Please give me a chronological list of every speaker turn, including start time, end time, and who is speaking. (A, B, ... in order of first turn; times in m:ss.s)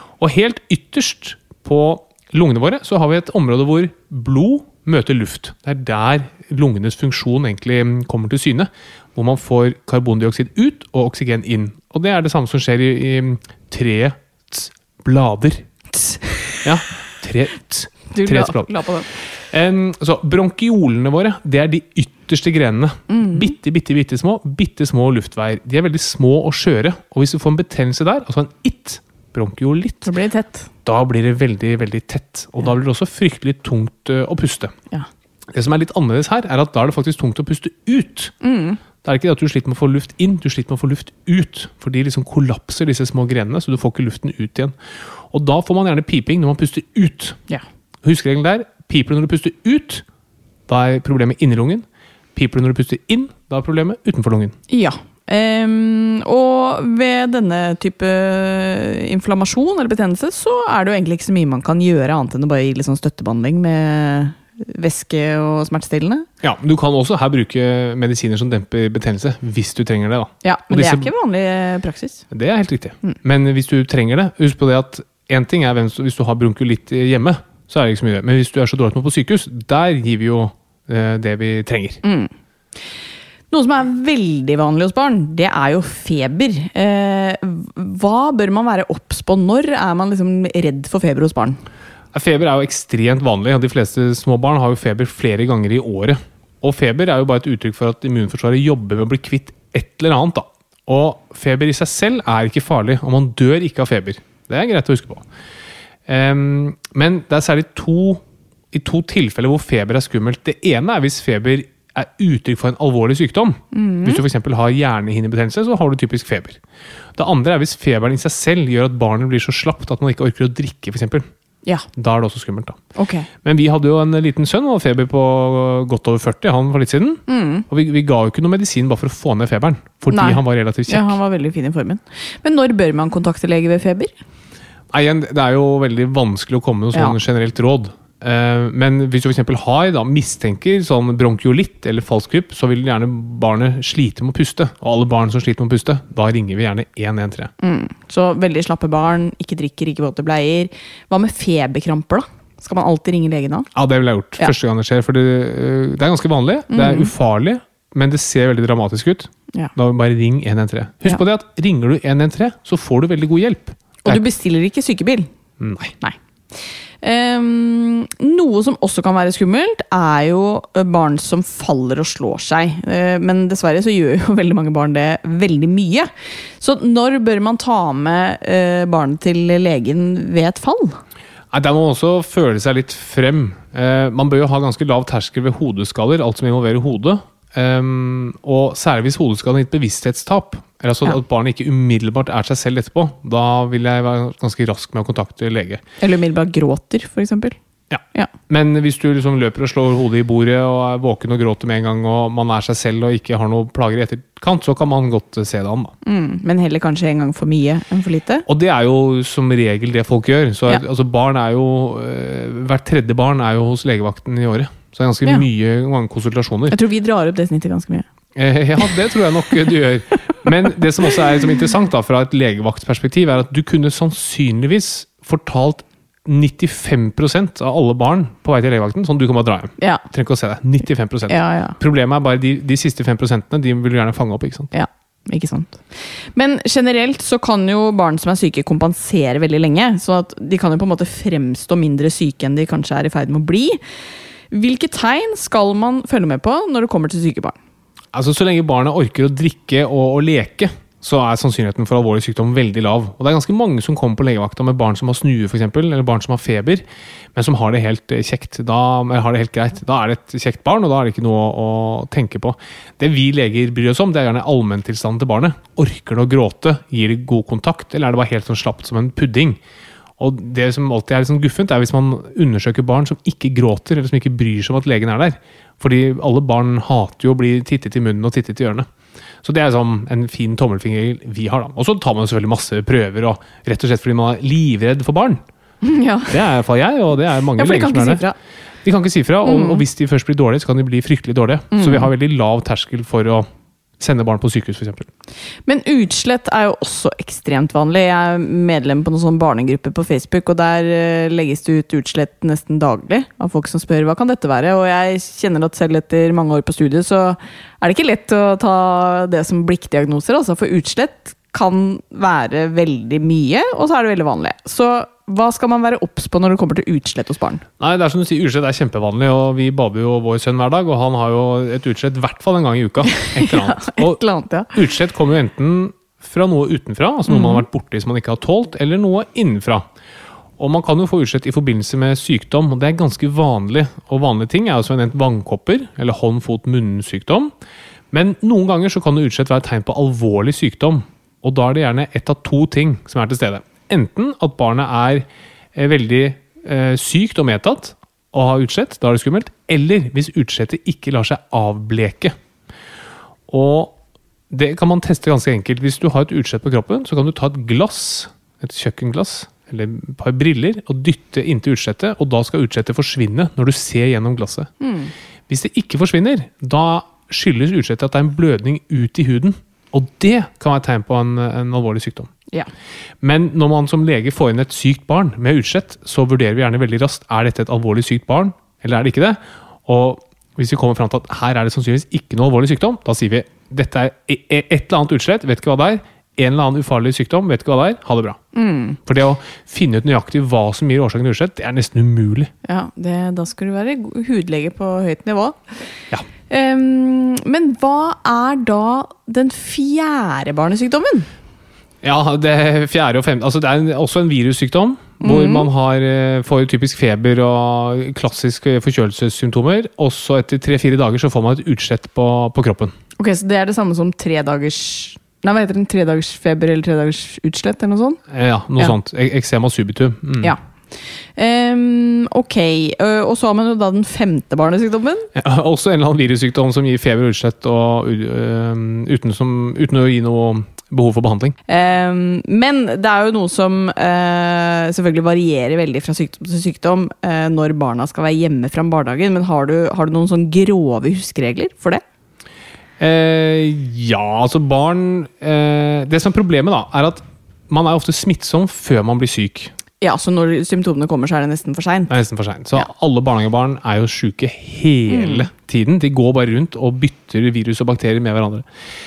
0:00.2-0:15.6 A
0:16.0-0:16.6 B
0:16.6-0:18.7 A
0:18.1-0:19.1 B
0:19.5-0:30.1 A
0:23.1-0:23.5 B
0:30.0-0:30.7 B
0:30.8-0:34.7 A
0:35.5-0:38.3 A
0:38.4-0:38.8 B
0:39.0-0:44.7 A
0:45.3-0:47.4 A
0:48.0-0:50.0 A
0:50.7-0:54.6 A
0:54.7-1:06.3 B
1:06.4-1:11.1 A
1:10.4-1:12.2 B
1:12.3-1:22.0 A
1:22.0-1:22.3 B
1:23.5-1:31.6 B
1:32.1-1:45.2 A
1:46.1-1:56.6 A
1:53.7-1:54.2 B
1:57.2-2:01.3 A
2:02.0-2:02.8 A
2:03.0-2:03.3 B
2:03.4-2:11.2 A
2:07.3-2:07.6 B
2:10.1-2:14.1 B
2:14.9-2:27.5 A
2:27.6-2:33.7 B
2:33.7-2:44.2 A
2:36.7-2:37.1 B
2:44.0-2:45.3 B
2:45.6-2:45.9 A
2:47.0-2:56.1 B
2:56.6-3:01.0 B
3:01.5-3:15.8 A
3:16.0-3:17.6 B
3:17.9-3:25.9 A
3:26.0-3:28.4 B
3:28.5-3:36.8 A
3:36.7-3:38.0 B
3:38.3-3:54.7 A
3:51.3-3:51.8 B
3:54.7-4:03.8 B
4:04.5-4:07.6 B
4:08.1-4:29.6 A
4:30.2-4:38.9 A
4:39.4-4:45.4 A
4:45.8-4:46.3 B
4:46.3-4:48.2 A
4:47.5-4:48.3 B
4:48.8-4:53.5 A
4:49.4-4:49.8 B
4:51.7-4:52.1 B
4:54.0-4:55.1 A
4:55.6-5:17.6 B
5:17.8-5:24.2 A
5:23.1-5:24.7 B
5:24.7-5:29.8 A
5:27.3-5:27.6 B
5:30.6-5:37.5 A
5:38.1-5:52.4 A
5:53.5-5:54.0 A
5:54.5-6:04.7 A
6:04.8-6:05.1 B
6:05.5-6:12.3 A
6:13.2-6:28.4 A
6:28.5-6:29.0 B
6:29.0-6:32.5 A
6:32.6-6:35.6 B
6:36.5-6:41.3 B
6:42.0-6:52.9 A
6:45.2-6:45.7 B
6:53.2-6:58.2 B
6:58.3-7:00.5 A
7:01.4-7:05.3 B
7:05.4-7:11.6 A
7:11.7-7:22.0 B
7:23.0-7:29.7 A
7:30.0-7:32.1 B
7:32.1-7:38.6 A
7:35.1-7:35.5 B